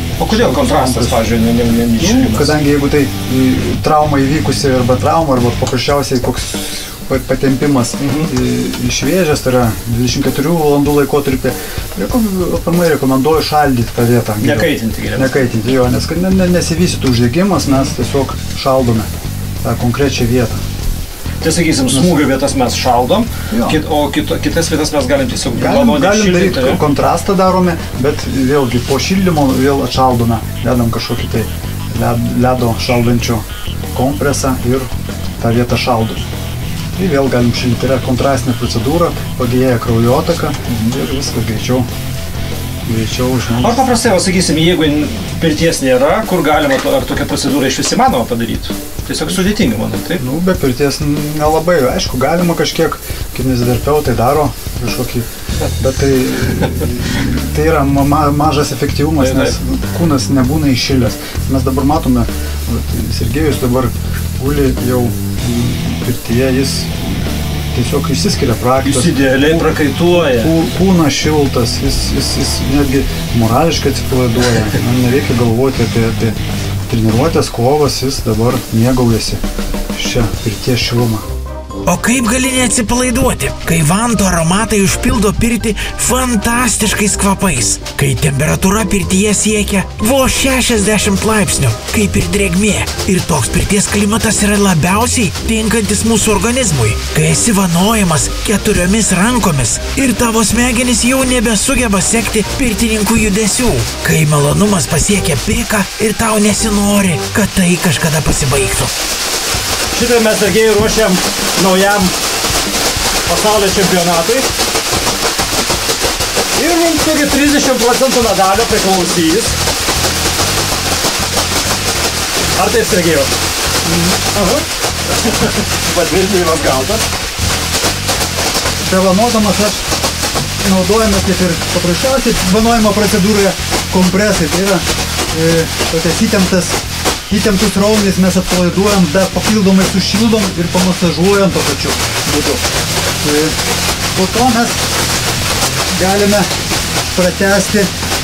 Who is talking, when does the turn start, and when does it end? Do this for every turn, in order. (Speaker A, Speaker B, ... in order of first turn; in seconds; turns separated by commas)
Speaker A: 0.2-2.5, Speaker B: 0.3-1.3, Speaker B: 2.0-19.1, Speaker A: 8.0-8.3, Speaker A: 14.4-15.3, Speaker B: 19.6-20.6, Speaker A: 21.4-26.8, Speaker B: 21.9-22.3, Speaker B: 23.5-23.8, Speaker B: 25.5-36.2, Speaker B: 37.0-41.9, Speaker B: 42.9-43.9, Speaker A: 43.6-50.2, Speaker B: 50.2-55.3, Speaker B: 55.8-79.4, Speaker A: 59.2-59.5, Speaker A: 68.8-70.5, Speaker B: 80.0-81.2, Speaker C: 81.9-108.9, Speaker A: 109.9-112.1, Speaker A: 113.3-114.5, Speaker A: 116.5-119.6, Speaker A: 122.6-123.3, Speaker B: 123.9-124.2, Speaker A: 124.2-124.7, Speaker A: 125.2-127.0, Speaker B: 128.8-129.9, Speaker B: 130.6-142.6, Speaker B: 143.2-143.6, Speaker B: 144.1-144.8, Speaker B: 145.9-146.5, Speaker B: 147.1-147.9